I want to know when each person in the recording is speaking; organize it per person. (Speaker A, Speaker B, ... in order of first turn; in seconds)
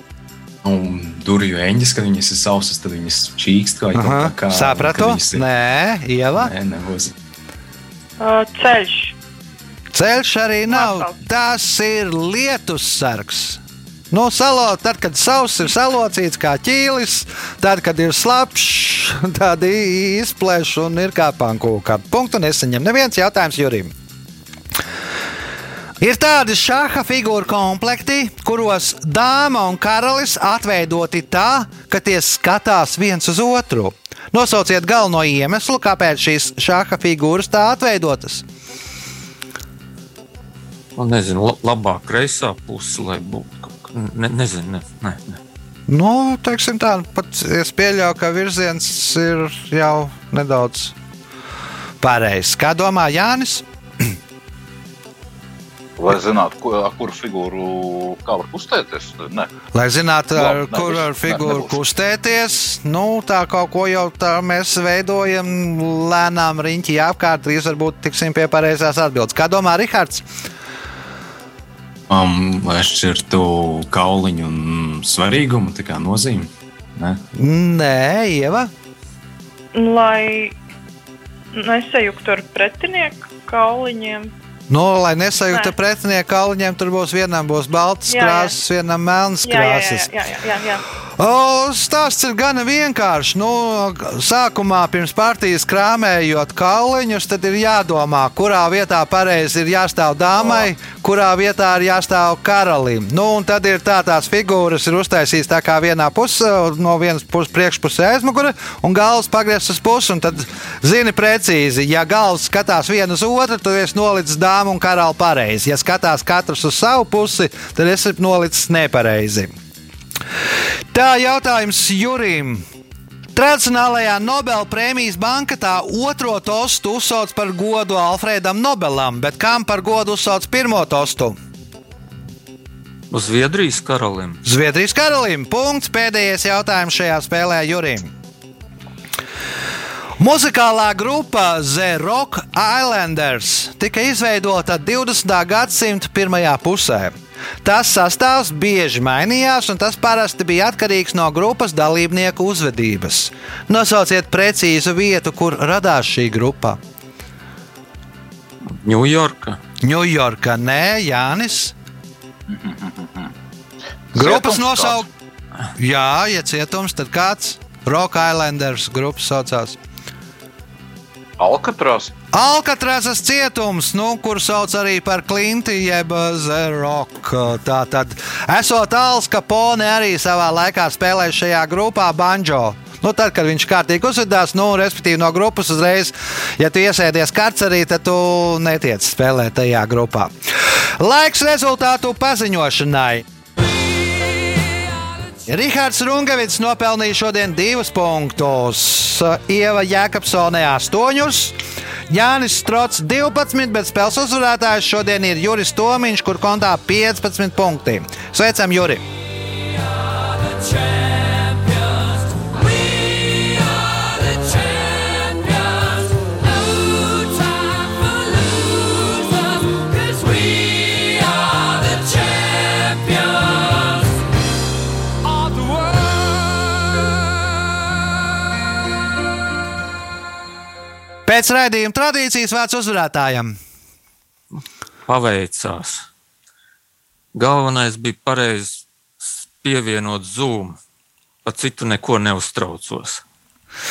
Speaker A: 0.6-5.4, 6.4-7.1, 72.1-77.2
Speaker B: 3.9-6.5, 9.9-23.9, 26.0-38.4, 45.9-50.9, 52.0-53.6, 59.7-70.3, 77.3-78.7, 84.7-90.1, 91.2-119.5, 120.9-122.6, 123.3-131.4, 134.4-138.1, 140.2-156.8, 159.8-161.7, 164.1-165.1, 165.8-169.8, 172.3-190.3, 191.0-193.2, 195.4-201.6, 202.1-209.0, 231.2-233.6
Speaker C: 8.2-9.2, 10.7-11.2, 79.7-80.5, 81.5-84.3, 88.1-88.5, 89.4-90.8
Speaker D: 41.0-45.4, 133.1-134.4, 158.6-159.6, 213.2-215.9, 216.9-223.8, 225.5-225.9, 234.5-236.1, 237.3-240.8, 241.4-243.2
Speaker E: 56.0-59.5, 60.3-61.8, 162.5-163.3, 164.1-165.0, 171.4-172.1